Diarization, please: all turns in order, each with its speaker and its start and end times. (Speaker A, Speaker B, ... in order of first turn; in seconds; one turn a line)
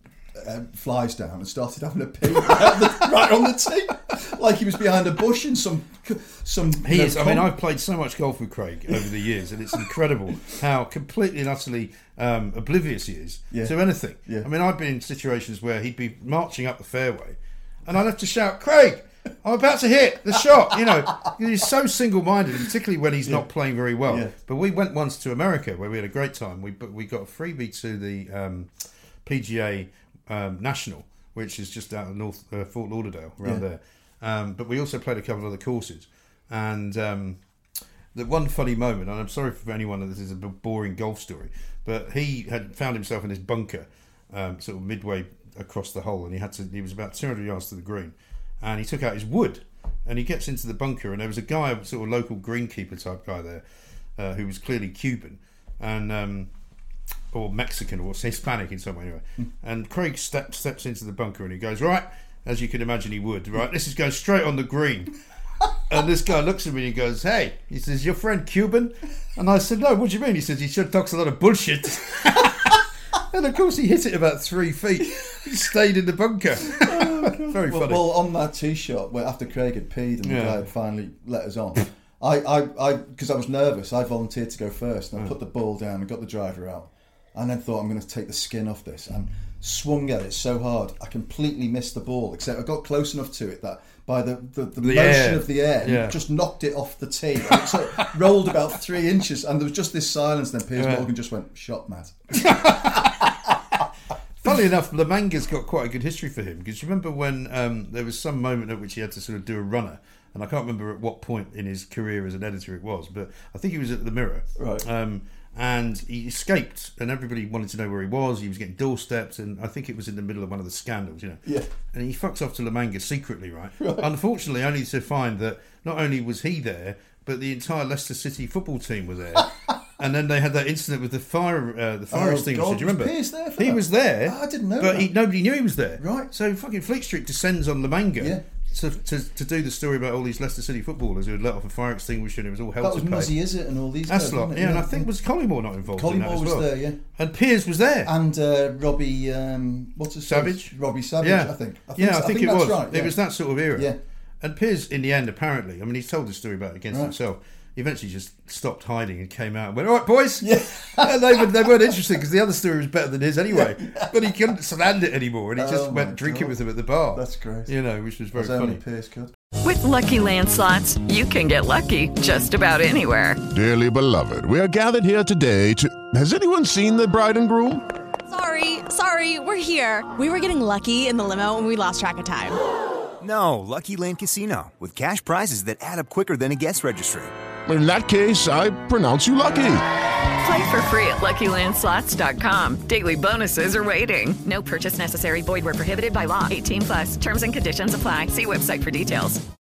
Speaker A: 0.3-7.5
Speaker B: 6.8-28.7
Speaker A: 24.1-24.3
Speaker B: 29.2-37.4
Speaker B: 38.1-53.6
Speaker B: 54.2-56.5
Speaker B: 57.3-65.1
Speaker B: 65.9-78.1
Speaker A: 76.6-103.2
Speaker B: 80.2-80.6
Speaker B: 94.8-96.2
Speaker B: 97.5-98.1
Speaker B: 100.8-101.1
Speaker B: 102.4-103.3
Speaker B: 104.4-143.3
Speaker A: 114.6-114.8
Speaker A: 123.8-124.1
Speaker A: 132.1-135.1
Speaker A: 136.0-136.3
Speaker A: 138.2-138.4
Speaker A: 142.8-145.1
Speaker B: 144.1-148.1
Speaker A: 145.9-147.0
Speaker A: 148.0-153.1
Speaker B: 150.2-168.8
Speaker A: 160.4-162.1
Speaker A: 163.5-164.3
Speaker A: 165.6-166.6
Speaker A: 167.1-167.7
Speaker A: 168.3-169.3
Speaker C: 169.6-173.4
Speaker D: 173.5-177.8
Speaker E: 178.3-182.6
Speaker F: 183.2-187.3
Speaker D: 187.7-189.8
Speaker C: 190.3-199.4